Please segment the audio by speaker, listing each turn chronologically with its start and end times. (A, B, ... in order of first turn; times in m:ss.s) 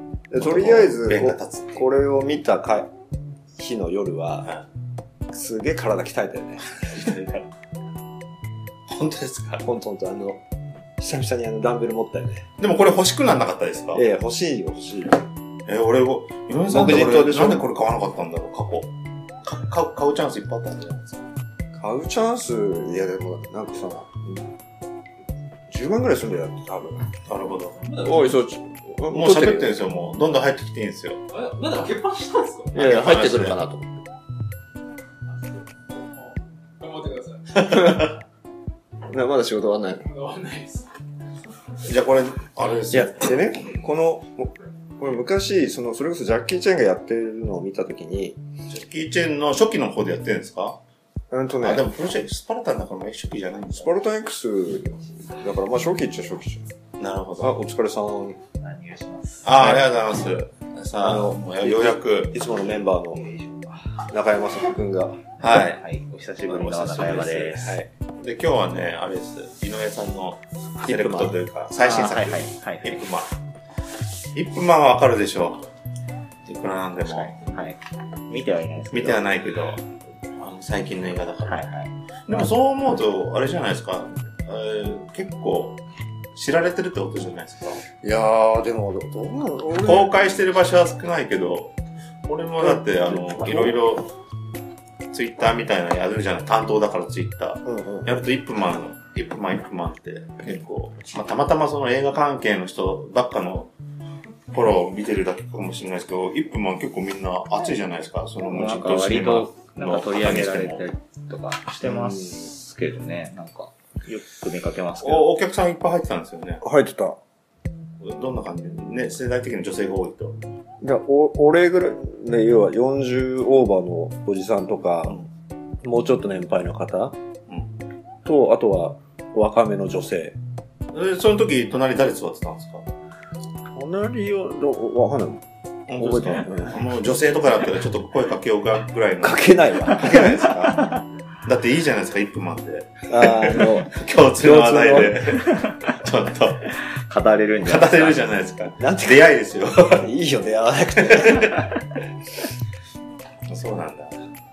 0:00.3-0:02.9 A
0:00.4-0:01.9 B
0:03.6-0:04.5 A
0:05.3-0:07.0 A
0:06.8-0:07.5 B
0:08.9-0:09.6 B
0:09.6-0:10.4 A
0:11.0-0:12.4 A
0:12.6-0:14.0 B
0:13.9-0:15.2 A
0:15.6-0:21.2 B
0:16.7-0:17.7 A
0:21.7-0:24.5 A
0:25.7-0:27.1 A
0:27.2-0:27.8 B
0:27.8-0:28.4 C
0:28.0-0:29.8 A
0:29.1-0:31.2 B
0:31.3-0:32.9 C
0:32.7-0:34.0 A
0:32.8-0:33.6 B
0:35.3-0:38.0 C
0:37.7-0:38.1 B
0:39.1-0:40.1 A
0:40.0-0:40.9 C
0:41.8-0:43.7 B
0:42.9-0:48.4 A
0:48.7-0:50.8 B
0:51.3-0:51.9 A
0:51.6-0:53.9 B
0:53.7-0:56.7 A
0:57.0-0:57.6 B
0:57.4-0:58.4 A
0:58.6-0:59.5 D
0:59.4-1:02.9 B
1:01.0-1:03.2 A
1:03.1-1:03.9 D
1:04.1-1:05.2 A
1:05.4-1:05.8 B
1:05.5-1:07.8 D
1:06.5-1:13.3 B
1:07.6-1:07.9 A
1:10.8-1:11.4 A
1:11.8-1:13.0 D
1:14.3-1:15.7 B
1:16.4-1:17.4 B
1:17.0-1:19.3 D
1:18.9-1:21.6 B
1:21.5-1:22.5 D
1:22.3-1:25.8 B
1:26.3-1:27.8 B
1:28.0-1:30.3 A
1:29.8-1:31.8 B
1:32.3-1:34.1 B
1:32.6-1:33.8 A
1:35.1-1:43.7 B
1:37.6-1:38.1 A
1:44.5-1:50.8 B
1:48.4-1:55.3 D
1:51.8-1:52.5 A
1:55.0-1:56.6 B
1:56.6-1:57.2 A
1:58.0-2:00.4 B
2:00.8-2:05.2 A
2:05.8-2:07.2 A
2:08.2-2:10.4 A
2:10.9-2:12.9 B
2:13.7-2:15.4 A
2:15.9-2:20.8 B
2:16.0-2:16.8 A
2:19.2-2:20.7 A
2:20.6-2:21.0 D
2:21.4-2:26.7 B
2:23.1-2:25.2 A
2:26.8-2:28.2 D
2:27.6-2:30.1 B
2:28.8-2:29.3 A
2:29.9-2:31.6 A
2:31.0-2:31.6 B
2:33.5-2:34.1 B